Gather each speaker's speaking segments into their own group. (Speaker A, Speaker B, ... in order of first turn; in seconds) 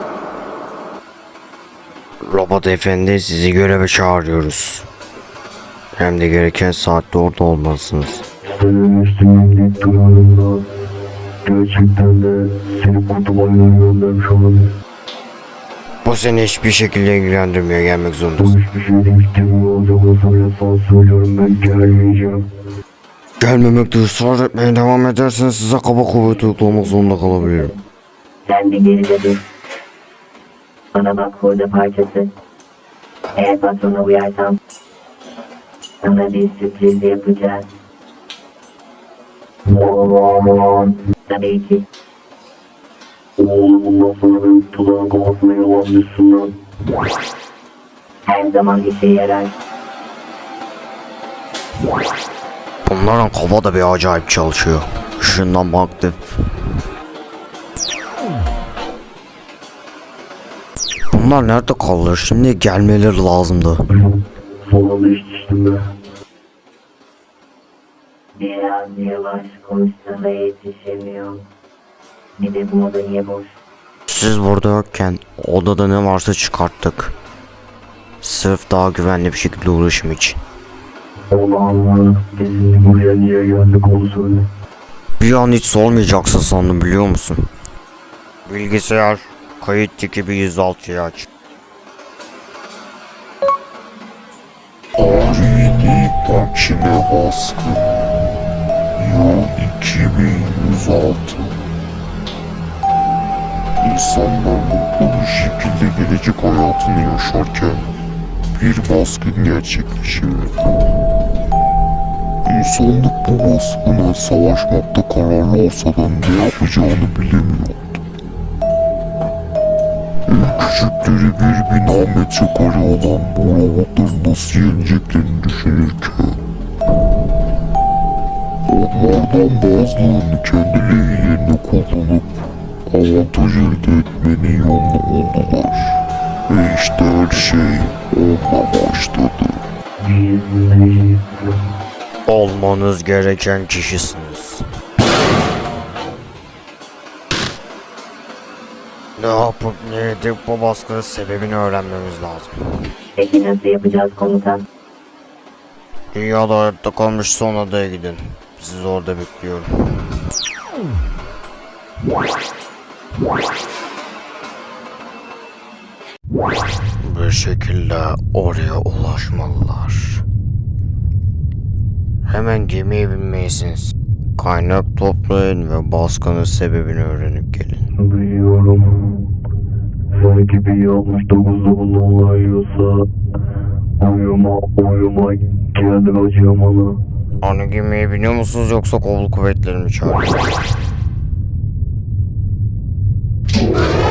Speaker A: 2.2-4.9, 5.9-8.2, 16.0-18.6, 23.4-27.7, 52.9-56.2, 61.1-63.8, 74.1-77.1, 78.2-80.4, 85.2-87.5, 88.5-91.3, 142.3-144.6, 149.2-152.6, 156.1-160.0, 167.0-170.2, 172.3-177.9, 187.4-190.4
Speaker B: 8.4-10.6, 11.4-14.7, 18.4-22.5, 39.7-40.9, 43.4-46.5, 63.9-65.9, 81.3-84.5, 140.0-141.6, 178.0-179.3, 180.1-183.1, 184.0-187.0
Speaker C: 28.5-29.4, 30.9-32.3, 33.4-34.6, 36.0-37.7, 41.1-41.8, 48.2-49.5, 68.4-71.4, 72.4-73.5, 153.2-154.6
Speaker D: 94.9-98.0, 99.0-101.6, 103.8-107.9, 108.5-110.8, 112.4-118.0, 120.2-126.4, 128.7-132.3, 132.9-139.6